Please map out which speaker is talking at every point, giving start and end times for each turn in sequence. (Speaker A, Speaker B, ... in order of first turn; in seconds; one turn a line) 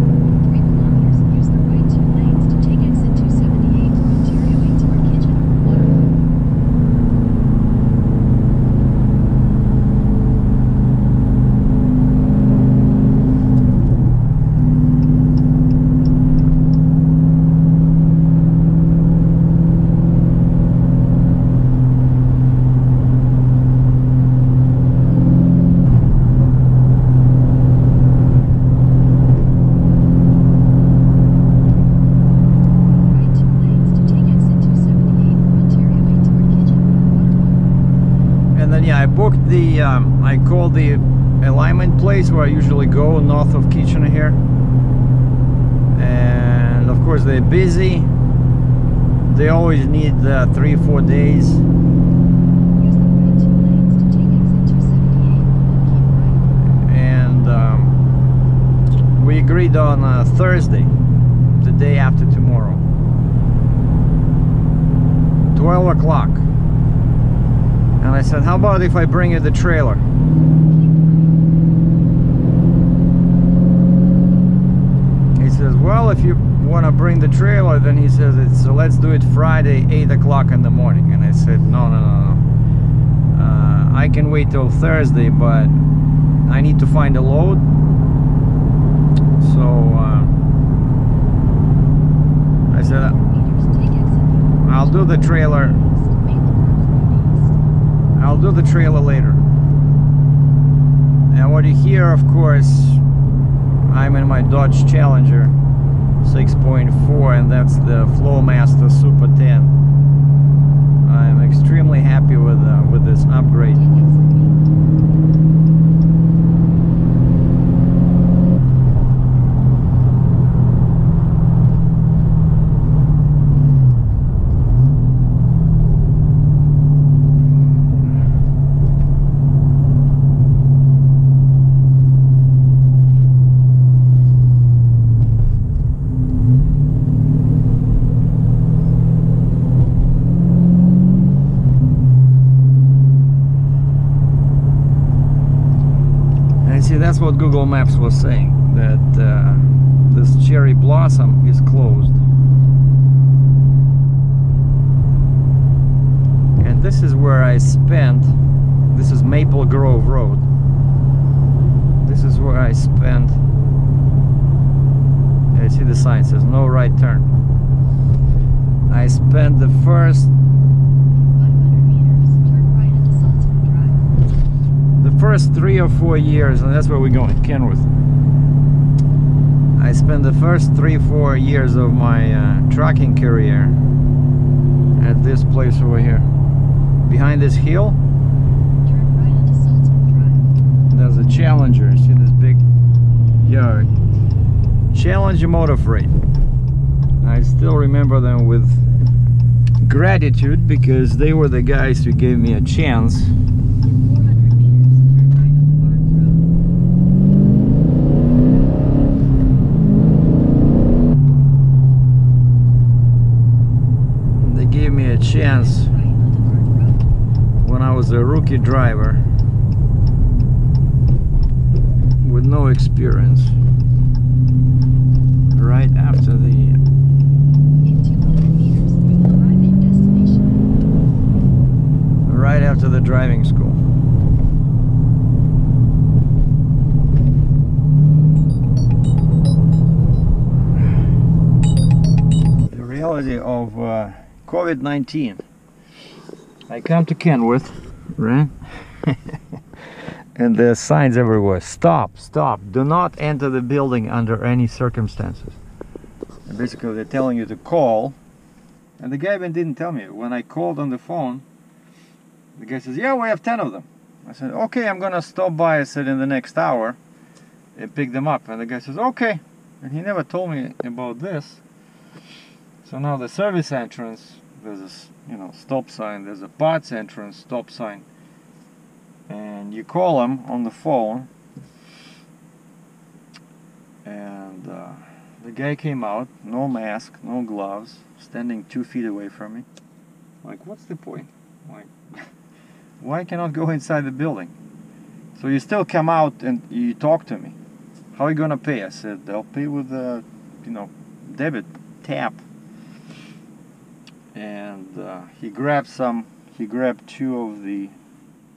Speaker A: 0.4-6.2
Speaker A: 33.0-37.8
Speaker B: 38.5-44.4
Speaker B: 45.9-48.1
Speaker B: 49.3-51.6
Speaker A: 52.8-56.5
Speaker B: 56.8-58.0
Speaker B: 59.1-60.9
Speaker B: 61.6-62.8
Speaker B: 65.5-66.5
Speaker B: 68.0-70.0
Speaker A: 70.6-71.4
Speaker B: 75.4-82.4
Speaker B: 83.3-85.7
Speaker B: 86.5-87.6
Speaker B: 89.4-90.4
Speaker B: 92.7-93.2
Speaker A: 92.7-97.6
Speaker B: 94.6-95.8
Speaker B: 98.2-99.4
Speaker B: 101.3-103.0
Speaker B: 103.9-105.5
Speaker B: 106.2-109.8
Speaker B: 111.0-113.8
Speaker A: 113.7-114.9
Speaker B: 146.6-152.2
Speaker B: 156.6-158.3
Speaker B: 158.9-160.4
Speaker B: 162.0-163.4
Speaker B: 165.5-167.3
Speaker B: 168.9-170.3
Speaker A: 171.2-174.1
Speaker B: 175.0-177.9
Speaker B: 179.8-183.8
Speaker B: 185.0-186.3
Speaker B: 187.0-188.0
Speaker A: 188.8-190.5
Speaker B: 190.9-192.6
Speaker B: 193.4-193.9
Speaker B: 194.9-196.1
Speaker B: 197.2-198.9
Speaker B: 199.8-203.3
Speaker A: 203.8-206.5
Speaker B: 214.4-215.9
Speaker A: 215.3-217.1
Speaker B: 217.6-219.2
Speaker B: 222.2-223.5
Speaker B: 225.5-226.8
Speaker A: 227.8-230.7
Speaker B: 232.2-233.8
Speaker B: 242.7-245.4
Speaker B: 246.7-249.4
Speaker B: 250.4-255.6
Speaker B: 256.5-258.2
Speaker B: 259.0-261.4
Speaker B: 262.6-267.0
Speaker B: 267.8-271.6
Speaker B: 272.8-278.0
Speaker B: 279.3-281.3
Speaker B: 284.0-289.7
Speaker B: 290.4-291.9
Speaker B: 293.0-294.5
Speaker B: 295.4-297.6
Speaker B: 298.1-302.4
Speaker B: 304.3-307.9